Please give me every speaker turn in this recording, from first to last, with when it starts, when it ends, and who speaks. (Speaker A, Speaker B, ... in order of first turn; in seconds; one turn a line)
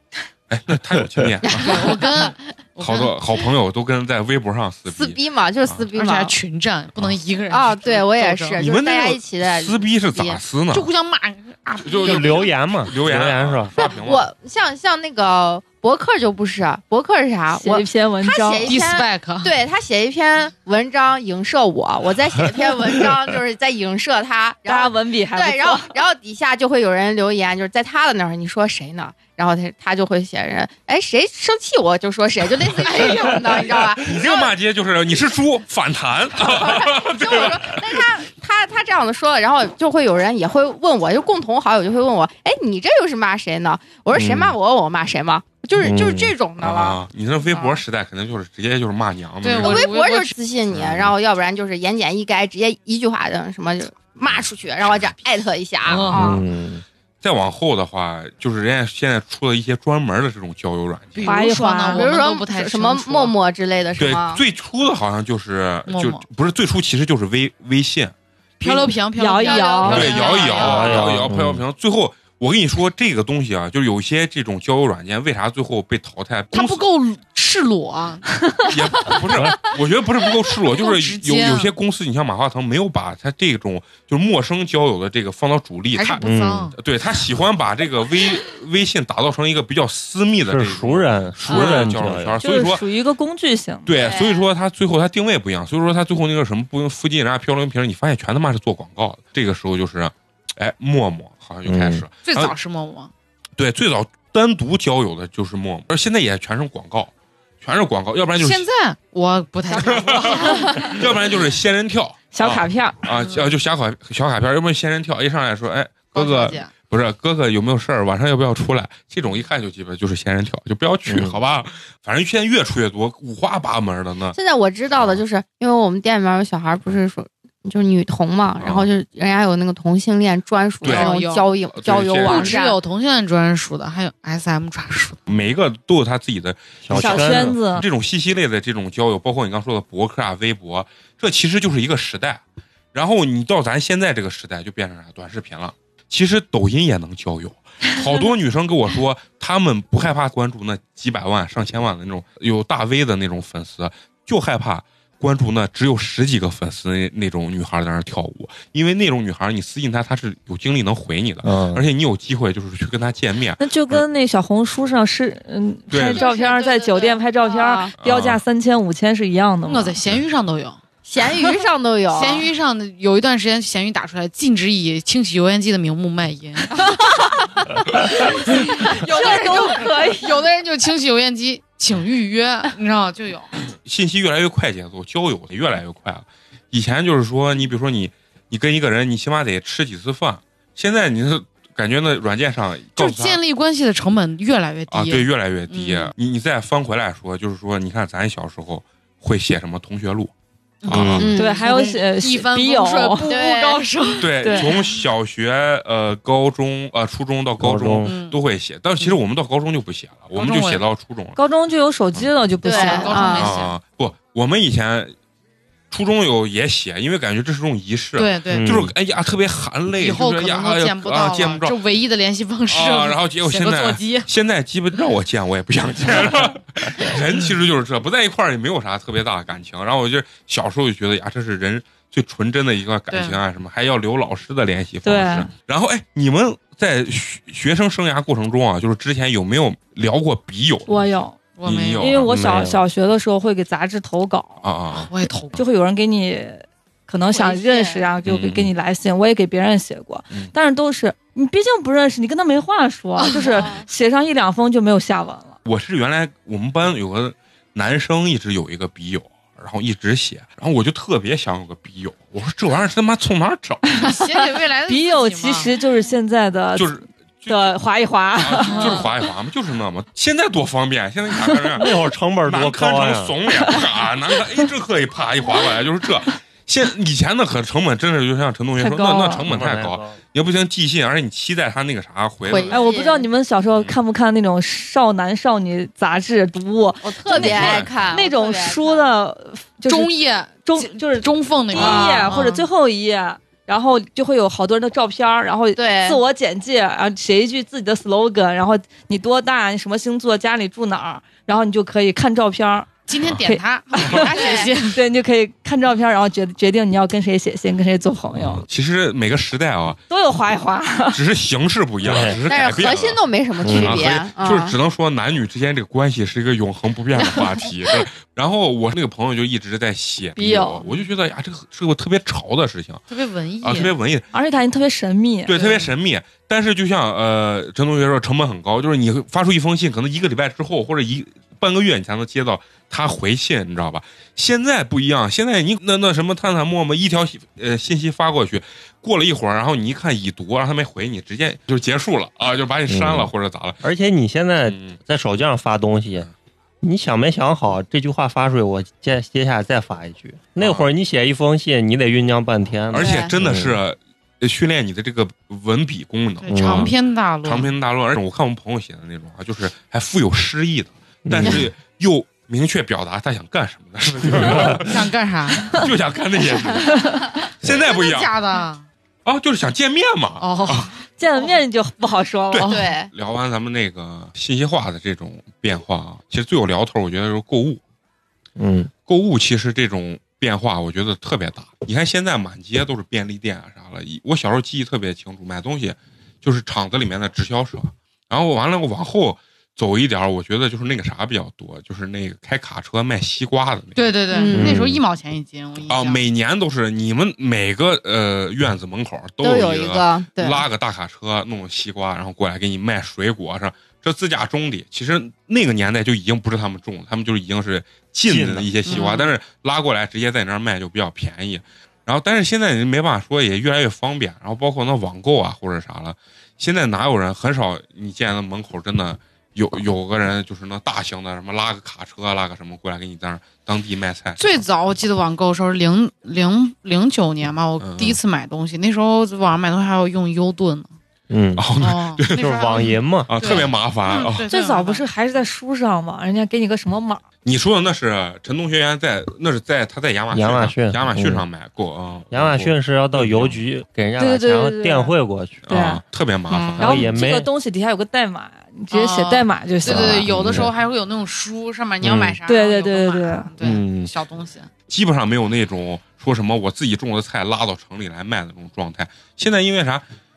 Speaker A: 0.5-2.0
Speaker B: 1.4-2.3
Speaker C: 1.6-3.1
Speaker A: 2.8-5.9
Speaker B: 4.9-6.4
Speaker C: 5.9-8.6
Speaker B: 7.5-10.4
Speaker A: 8.6-10.9
Speaker C: 10.7-12.5
Speaker A: 11.8-14.3
Speaker D: 12.0-13.7
Speaker B: 13.8-34.5
Speaker E: 17.6-18.7
Speaker C: 18.6-19.6
Speaker E: 24.7-25.9
Speaker A: 34.0-38.0
Speaker B: 36.4-47.0
Speaker D: 44.1-44.5
Speaker D: 45.8-46.3
Speaker A: 46.6-49.8
Speaker B: 47.5-47.8
Speaker C: 49.4-50.4
Speaker B: 49.6-56.4
Speaker A: 50.7-51.1
Speaker C: 55.9-56.3
Speaker D: 56.1-56.8
Speaker A: 57.2-61.4
Speaker C: 61.1-63.4
Speaker E: 61.2-62.1
Speaker B: 61.9-64.4
Speaker A: 64.0-68.1
Speaker C: 65.9-66.2
Speaker C: 68.6-71.2
Speaker E: 69.1-70.3
Speaker B: 69.4-71.0
Speaker A: 69.9-76.8
Speaker D: 70.6-71.6
Speaker C: 76.5-78.8
Speaker A: 78.7-86.2
Speaker C: 80.7-81.7
Speaker C: 85.9-86.8
Speaker D: 86.2-86.8
Speaker A: 86.8-92.8
Speaker D: 90.5-92.4
Speaker E: 91.5-93.9
Speaker A: 93.9-102.5
Speaker B: 93.9-94.5
Speaker D: 101.7-102.0
Speaker C: 102.2-103.1
Speaker A: 103.6-108.7
Speaker C: 108.4-111.0
Speaker E: 109.7-110.9
Speaker A: 109.9-124.4
Speaker E: 112.3-113.0
Speaker C: 113.2-113.5
Speaker C: 116.1-116.7
Speaker D: 121.1-121.4
Speaker B: 124.3-132.8
Speaker A: 128.6-128.9
Speaker C: 130.8-131.6
Speaker A: 130.8-131.1
Speaker A: 131.7-132.6
Speaker C: 132.2-135.2
Speaker A: 135.3-142.4
Speaker D: 136.8-137.6
Speaker E: 136.9-137.9
Speaker A: 142.9-164.1
Speaker D: 161.4-161.8
Speaker E: 163.6-170.0
Speaker A: 165.9-166.2
Speaker B: 166.1-167.9
Speaker A: 168.0-168.4
Speaker C: 169.7-170.8
Speaker B: 171.1-172.5
Speaker C: 172.1-177.0
Speaker C: 177.7-183.5
Speaker E: 178.1-180.4
Speaker A: 183.8-193.4
Speaker C: 193.0-196.1
Speaker A: 194.9-200.3
Speaker C: 200.8-205.0
Speaker A: 200.9-201.3
Speaker D: 200.9-201.3
Speaker B: 201.2-201.7
Speaker E: 201.4-203.3
Speaker B: 203.2-203.9
Speaker A: 204.2-211.4
Speaker E: 204.4-204.7
Speaker D: 207.6-208.1
Speaker C: 208.1-208.4
Speaker C: 210.3-210.8
Speaker E: 211.4-213.5
Speaker B: 212.6-213.5
Speaker C: 212.7-213.8
Speaker A: 213.3-215.1
Speaker A: 215.9-221.8
Speaker C: 218.2-218.9
Speaker D: 218.5-218.9
Speaker C: 220.0-224.3
Speaker A: 222.7-242.3
Speaker C: 233.1-233.4
Speaker E: 235.0-235.5
Speaker E: 240.9-241.4
Speaker C: 241.5-242.2
Speaker E: 242.0-244.7
Speaker D: 242.3-242.8
Speaker A: 244.6-245.1
Speaker C: 244.9-245.6
Speaker E: 245.6-255.6
Speaker B: 247.3-248.1
Speaker A: 248.3-248.7
Speaker C: 253.3-253.7
Speaker B: 253.4-253.9
Speaker A: 255.7-264.0
Speaker C: 264.0-265.7
Speaker E: 264.9-269.1
Speaker A: 266.8-267.7
Speaker A: 268.4-271.9
Speaker C: 268.6-269.1
Speaker D: 271.8-273.4
Speaker A: 272.4-282.8
Speaker E: 278.8-279.4
Speaker D: 279.5-280.2
Speaker B: 282.5-283.3
Speaker E: 282.7-308.7
Speaker B: 287.0-289.1
Speaker A: 287.3-287.9
Speaker C: 289.9-292.6
Speaker B: 291.7-292.4
Speaker B: 295.8-296.2
Speaker C: 303.1-305.0
Speaker B: 304.3-304.7
Speaker D: 308.4-308.6
Speaker A: 308.7-310.0
Speaker E: 310.1-311.2
Speaker A: 311.1-323.1
Speaker D: 312.0-312.4
Speaker B: 312.4-314.8
Speaker D: 313.6-314.1
Speaker E: 320.4-320.8
Speaker C: 323.1-323.9
Speaker A: 323.6-324.3
Speaker E: 324.3-325.7
Speaker A: 325.5-343.8
Speaker C: 325.6-325.9
Speaker D: 342.9-343.3
Speaker D: 343.8-346.3
Speaker A: 344.7-345.0
Speaker D: 346.8-353.8
Speaker A: 350.6-350.9
Speaker A: 352.9-368.3
Speaker B: 352.9-353.3
Speaker C: 356.4-357.7
Speaker D: 356.5-356.9
Speaker D: 361.3-361.7
Speaker D: 364.3-364.8
Speaker C: 364.6-365.8
Speaker C: 367.7-368.9
Speaker A: 369.2-370.9
Speaker C: 370.4-370.9
Speaker E: 371.1-372.7
Speaker A: 372.5-377.8
Speaker C: 372.6-372.9
Speaker B: 372.6-373.1
Speaker D: 378.6-378.9
Speaker A: 379.1-394.0
Speaker C: 394.0-396.2
Speaker B: 394.3-394.8
Speaker D: 394.5-395.0
Speaker A: 395.9-424.6
Speaker B: 399.4-400.6
Speaker D: 408.2-408.8
Speaker C: 408.9-409.2
Speaker B: 408.9-409.3
Speaker C: 424.4-430.9
Speaker A: 427.8-428.2
Speaker D: 431.3-431.7
Speaker A: 431.6-432.5
Speaker C: 431.8-435.1
Speaker D: 432.3-433.6
Speaker A: 433.3-434.5
Speaker E: 434.5-437.2
Speaker A: 437.4-443.6
Speaker D: 440.3-441.5
Speaker D: 442.3-445.6
Speaker E: 444.2-445.1
Speaker A: 445.7-447.1
Speaker E: 445.7-446.0
Speaker D: 446.8-447.5
Speaker E: 446.8-450.3
Speaker C: 448.9-454.7
Speaker D: 449.9-450.7
Speaker A: 450.3-450.7
Speaker D: 452.0-452.4
Speaker E: 452.5-453.5
Speaker D: 453.6-454.1
Speaker A: 454.9-460.1